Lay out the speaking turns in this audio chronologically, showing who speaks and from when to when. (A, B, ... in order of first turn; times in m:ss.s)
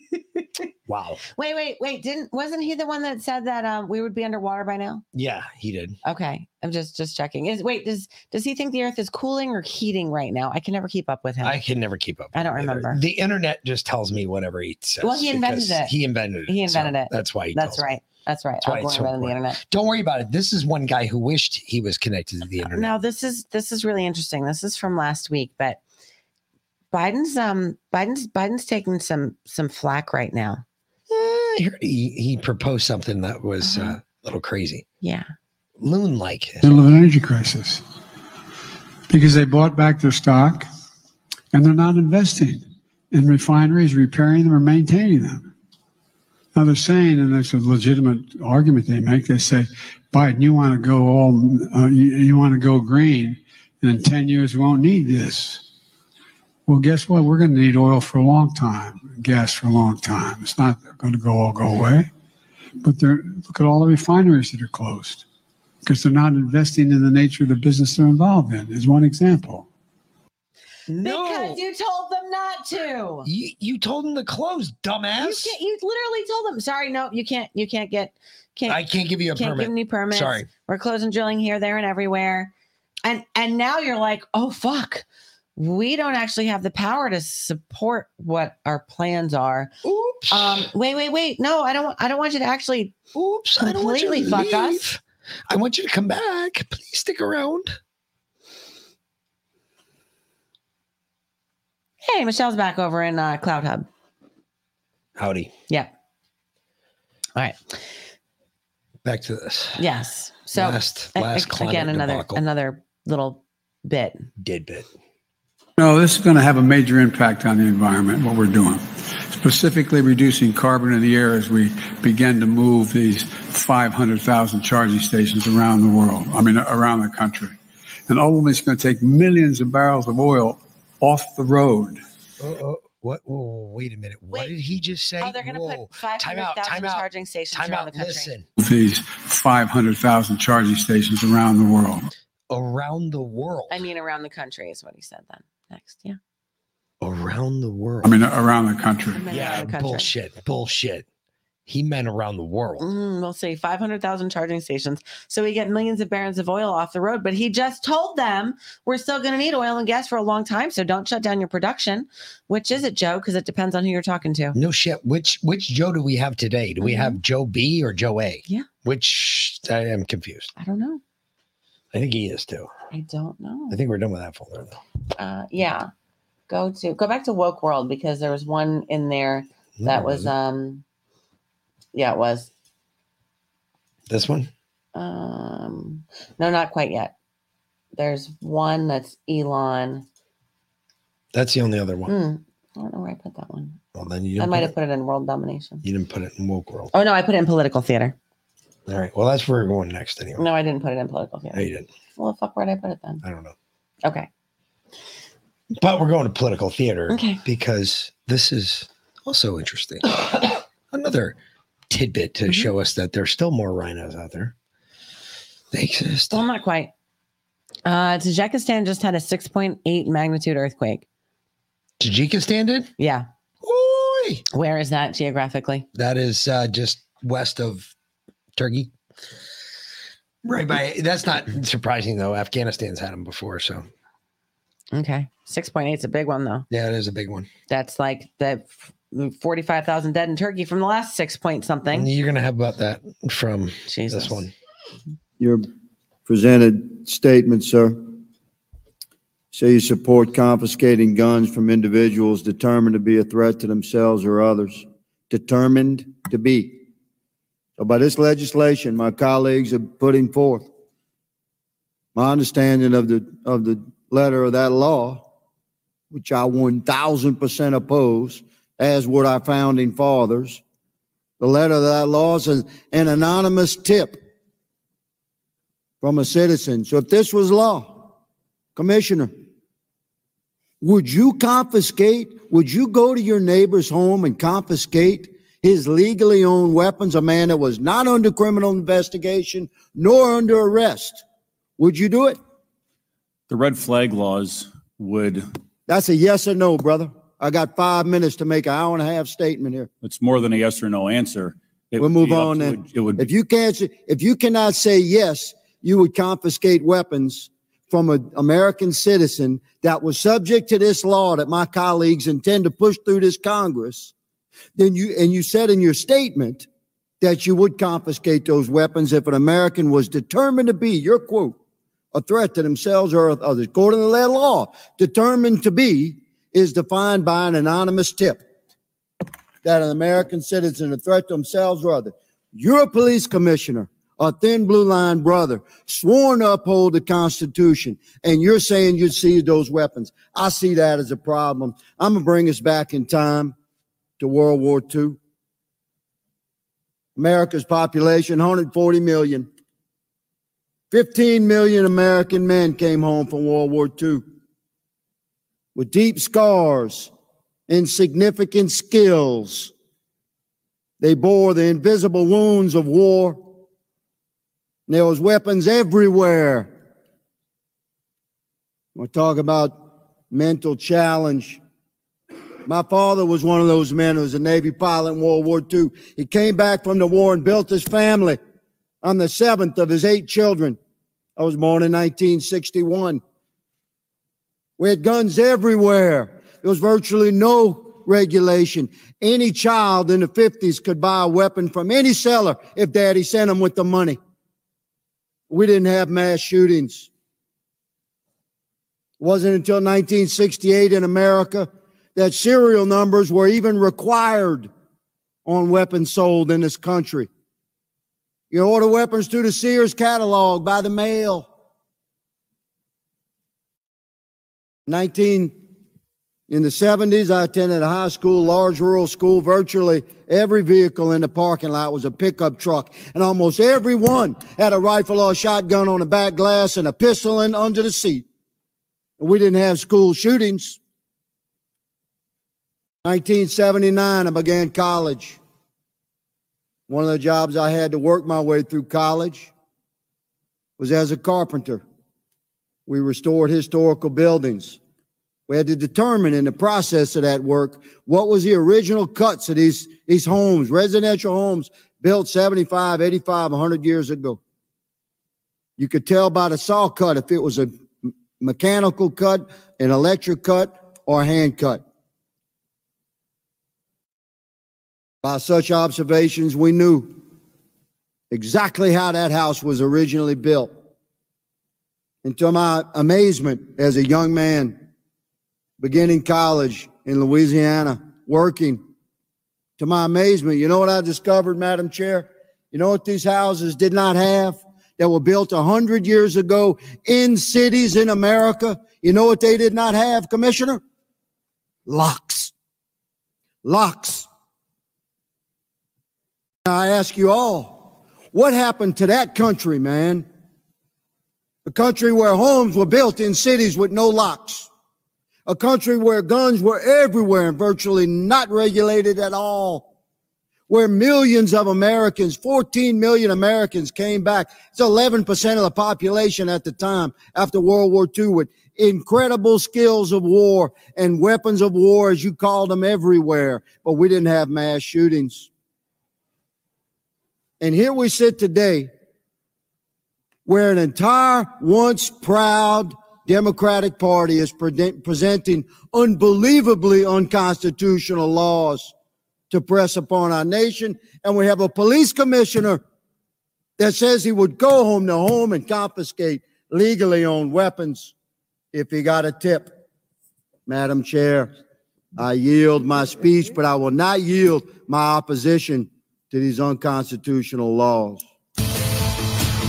0:00.9-0:01.2 A
0:01.3-0:05.0 B
0:05.1-0:06.0 A
0:06.0-0:11.6 B
0:11.4-0:17.8 A
0:12.3-0:13.0 B
0:15.0-0:15.9 B
0:16.5-0:19.6 B
0:18.6-0:22.9 A
0:22.6-0:25.8 B
0:26.9-0:30.6 B
0:31.1-0:34.8 A
0:33.6-0:34.0 B
0:35.8-0:36.7 A
0:36.6-0:37.8 C
0:39.1-0:40.7 C
0:41.5-0:45.5 C
0:46.5-0:55.6 C
0:56.7-1:02.1 C
1:02.8-1:05.2 C
1:05.8-1:09.6 C
1:10.9-1:11.6 A
1:11.0-1:13.3 B
1:13.2-1:15.5 A
1:15.2-1:18.8 B
1:18.7-1:20.5 A
1:19.4-1:22.5 B
1:23.0-1:25.0 B
1:25.6-1:29.7 B
1:29.8-1:30.7 A
1:30.3-1:32.9 B
1:33.1-1:37.8 A
1:33.6-1:34.8 B
1:42.0-1:43.9 B
1:45.2-1:45.5 A
1:47.4-1:47.8 B
1:49.0-1:49.8 A
1:49.8-1:54.3 B
1:50.5-1:52.4 A
1:54.4-1:54.9 A
1:55.8-2:07.6 C
2:08.1-2:12.0 C
2:12.4-2:18.4 A
2:15.2-2:18.3 B
2:18.6-2:22.0 C
2:22.5-2:23.8 A
2:23.7-2:26.2 B
2:27.0-2:28.1 A
2:28.0-2:29.2 C
2:29.1-2:30.1 B
2:29.3-2:31.0 A
2:31.7-2:32.9 A
2:32.8-2:44.6 B
2:44.5-2:50.5 A
2:46.8-2:47.2 B
2:50.6-2:51.0 B
2:51.9-2:52.7 A
2:52.9-2:53.8 B
2:53.7-2:54.8 A
2:55.2-2:55.9 B
2:56.5-3:00.8 B
2:59.8-3:00.3 A
3:01.9-3:02.5 B
3:04.1-3:04.5 A
3:04.9-3:07.1 B
3:08.0-3:10.0 B
3:11.3-3:12.1 A
3:12.1-3:13.8 B
3:13.9-3:14.7 A
3:14.4-3:15.8 B
3:15.8-3:16.9 A
3:16.9-3:18.2 B
3:18.9-3:20.4 A
3:20.4-3:21.6 B
3:21.5-3:21.9 A
3:22.2-3:23.2 B
3:23.2-3:23.5 A
3:25.8-3:31.4 A
3:27.1-3:27.4 B
3:31.9-3:34.5 A
3:35.7-3:36.4 A
3:36.3-3:36.9 B
3:37.8-3:41.0 B
3:42.0-3:42.9 A
3:43.0-3:43.3 B
3:43.6-3:44.4 A
3:44.5-3:45.8 B
3:45.9-3:47.9 A
3:48.6-3:48.9 A
3:50.4-3:53.8 A
3:54.9-3:56.6 B
3:56.7-3:57.5 A
3:57.7-4:02.1 B
4:01.9-4:04.5 A
4:03.9-4:04.4 B
4:05.4-4:05.7 D
4:06.3-4:08.0 D
4:09.5-4:16.8 D
4:17.8-4:20.6 D
4:22.2-4:25.2 D
4:26.1-4:30.6 D
4:31.4-4:34.2 D
4:36.0-4:38.1 D
4:38.8-4:39.3 D
4:40.8-4:51.2 D
4:51.8-4:52.4 D
4:53.5-4:55.5 E
4:55.9-4:59.9 D
5:00.0-5:03.3 E
5:02.0-5:14.1 D
5:14.8-5:16.6 D
5:17.2-5:21.6 D
5:22.1-5:28.4 D
5:29.6-5:43.5 D
5:44.2-5:45.2 D
5:47.2-5:49.5 D
5:50.9-5:54.2 D
5:55.8-5:57.1 D
5:57.7-5:59.7 D
6:01.0-6:03.4 D
6:04.9-6:06.7 D
6:09.0-6:11.6 D
6:12.6-6:18.4 D
6:19.0-6:20.8 D
6:21.4-6:23.2 D
6:24.8-6:34.2 D
6:35.5-6:37.1 D
6:39.2-6:44.7 D
6:45.4-6:47.3 D
6:48.5-6:51.5 D
6:54.9-6:55.5 D
6:56.5-7:08.2 D
7:09.2-7:10.8 D
7:13.0-7:15.4 D
7:16.9-7:19.5 D
7:20.8-7:21.8 D
7:22.9-7:24.8 D
7:25.5-7:34.4 D
7:35.8-7:41.8 D
7:45.2-7:47.2 D
7:48.3-7:50.7 D
7:52.2-7:54.8 D
7:55.8-7:58.8 D
7:59.8-8:10.8 D
8:11.9-8:12.5 D
8:13.6-8:14.3 D
8:16.6-8:20.2 D
8:21.6-8:24.7 D
8:25.4-8:29.9 D
8:30.7-8:45.5 D
8:47.6-8:48.9 D
8:50.4-8:58.9 D
8:59.5-9:02.8 D
9:03.8-9:08.1 D
9:08.7-9:09.7 D
9:10.7-9:11.5 D
9:12.2-9:18.2 D